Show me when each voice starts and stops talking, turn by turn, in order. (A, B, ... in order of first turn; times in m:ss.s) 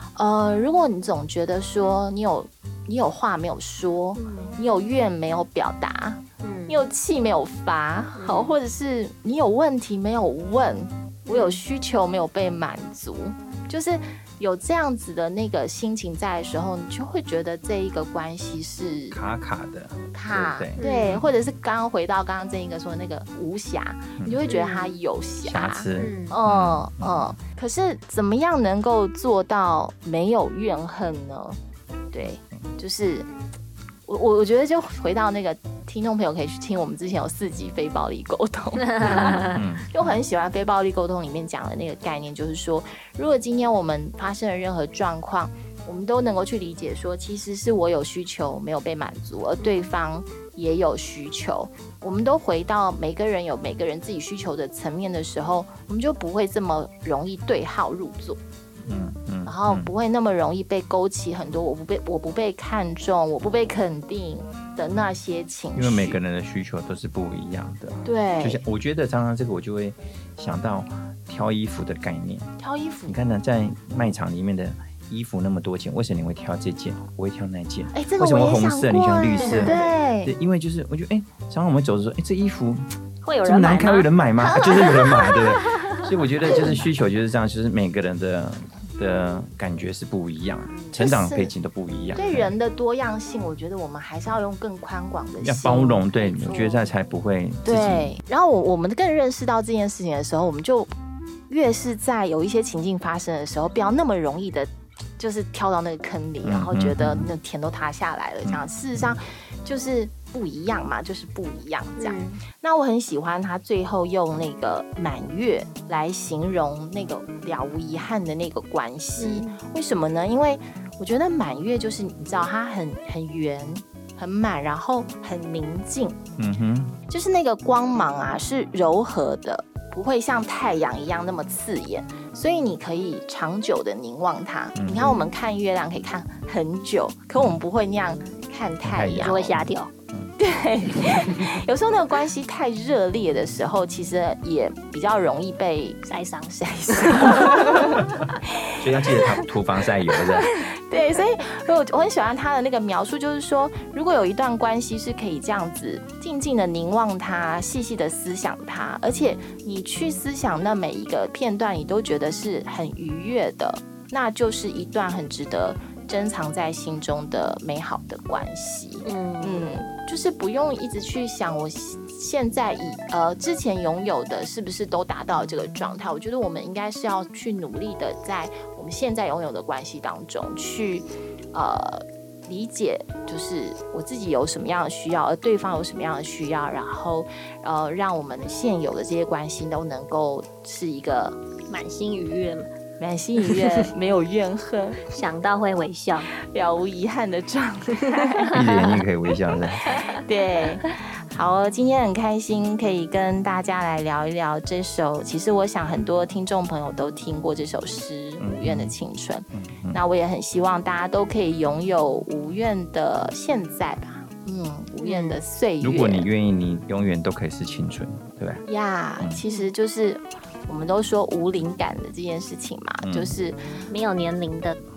0:00.2-0:19.2 A
0:04.2-0:04.6 B
0:06.4-0:06.8 B
0:08.2-0:08.5 B
0:11.3-0:11.6 B
0:19.1-0:20.8 C
0:20.1-0:31.6 A
0:20.8-0:21.3 B
0:24.2-0:24.5 C
0:24.5-0:24.9 B
0:25.4-0:27.3 C
0:26.0-0:26.4 B
0:32.1-0:33.3 A
0:32.2-0:32.6 C
0:34.1-0:58.4 A
0:38.9-0:39.6 B
0:39.5-0:40.1 C
0:49.6-0:49.9 B
0:58.8-0:59.9 C
0:59.4-1:06.2 A
1:05.8-1:12.5 C
1:08.0-1:08.6 A
1:12.6-1:13.2 A
1:13.1-1:22.9 C
1:17.9-1:20.3 A
1:19.4-1:19.9 B
1:23.2-1:24.1 B
1:23.4-1:32.5 C
1:24.5-1:25.4 A
1:25.7-1:26.0 B
1:30.7-1:31.0 B
1:30.9-1:31.5 A
1:32.1-1:36.8 A
1:35.4-1:38.2 C
1:37.6-1:40.9 A
1:41.5-2:06.2 A
1:46.4-1:47.3 C
1:48.4-1:49.2 C
1:52.0-1:52.4 B
1:59.2-1:59.6 B
2:06.4-2:07.0 C
2:07.1-2:19.5 A
2:14.8-2:15.1 C
2:18.8-2:20.3 C
2:19.2-2:19.9 B
2:20.4-2:26.0 A
2:26.1-2:27.9 B
2:26.6-2:29.5 A
2:28.2-2:30.5 C
2:30.1-3:11.4 A
2:49.0-2:49.9 B
3:11.7-3:12.7 B
3:13.0-3:15.0 A
3:15.1-3:16.3 B
3:16.5-3:18.7 A
3:18.5-3:19.9 C
3:19.9-3:36.3 A
3:28.4-3:29.0 C
3:29.5-3:30.0 C
3:35.0-3:35.4 B
3:35.8-3:38.6 C
3:38.7-3:43.6 A
3:43.0-3:43.4 C
3:43.9-3:44.8 B